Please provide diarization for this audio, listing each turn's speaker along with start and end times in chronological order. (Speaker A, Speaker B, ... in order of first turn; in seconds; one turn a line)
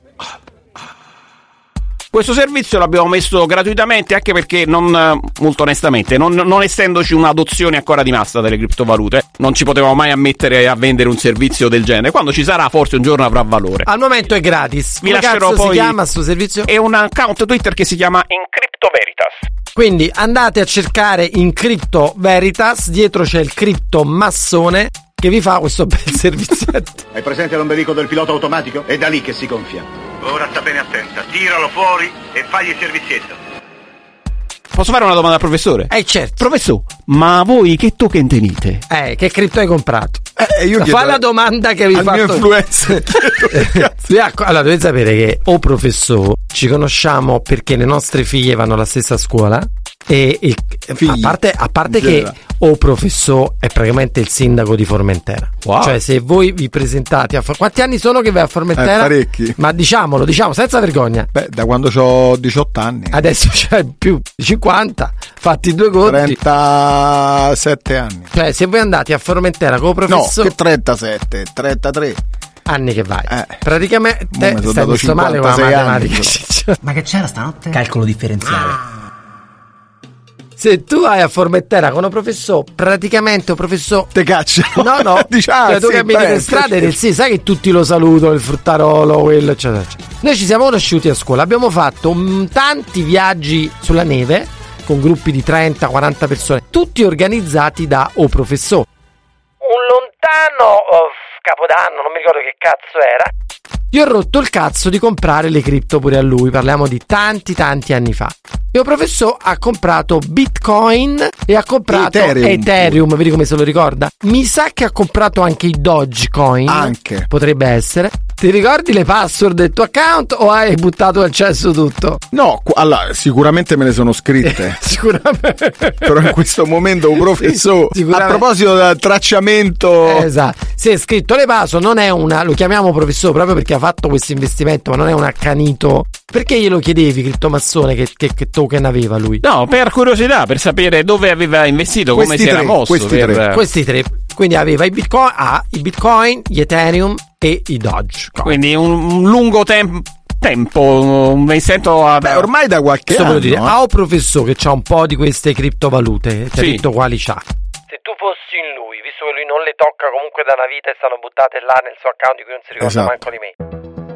Speaker A: 2.1-13.9
Speaker B: 13.9-16.7
Speaker A: 15.0-16.0
Speaker A: 16.7-19.4
Speaker B: 19.8-27.1
Speaker C: 27.1-33.4
Speaker A: 34.7-38.8
Speaker B: 35.9-36.4
Speaker B: 38.9-40.3
Speaker D: 40.4-41.2
Speaker B: 40.8-61.3
Speaker D: 41.9-43.9
Speaker D: 51.0-52.3
Speaker A: 55.6-56.0
Speaker D: 58.8-59.6
Speaker D: 61.3-63.2
Speaker B: 63.1-66.4
Speaker D: 66.0-68.3
Speaker B: 68.3-70.5
Speaker D: 70.1-72.2
Speaker B: 72.7-76.8
Speaker D: 73.3-73.6
Speaker D: 74.3-76.4
Speaker E: 76.8-78.8
Speaker B: 80.6-84.1
Speaker D: 84.1-87.0
Speaker B: 84.8-98.9
Speaker B: 99.6-103.3
Speaker B: 103.9-122.2
Speaker D: 111.9-113.0
Speaker D: 116.7-117.3
Speaker D: 122.3-124.8
Speaker B: 124.4-126.3
Speaker D: 126.0-130.3
Speaker B: 127.4-128.4
Speaker B: 130.0-139.4
Speaker A: 139.4-143.6
Speaker D: 142.1-143.4
Speaker B: 143.5-148.6
Speaker A: 148.4-152.5
Speaker D: 152.2-153.8
Speaker B: 153.1-163.6
Speaker A: 156.6-156.8
Speaker D: 162.8-163.2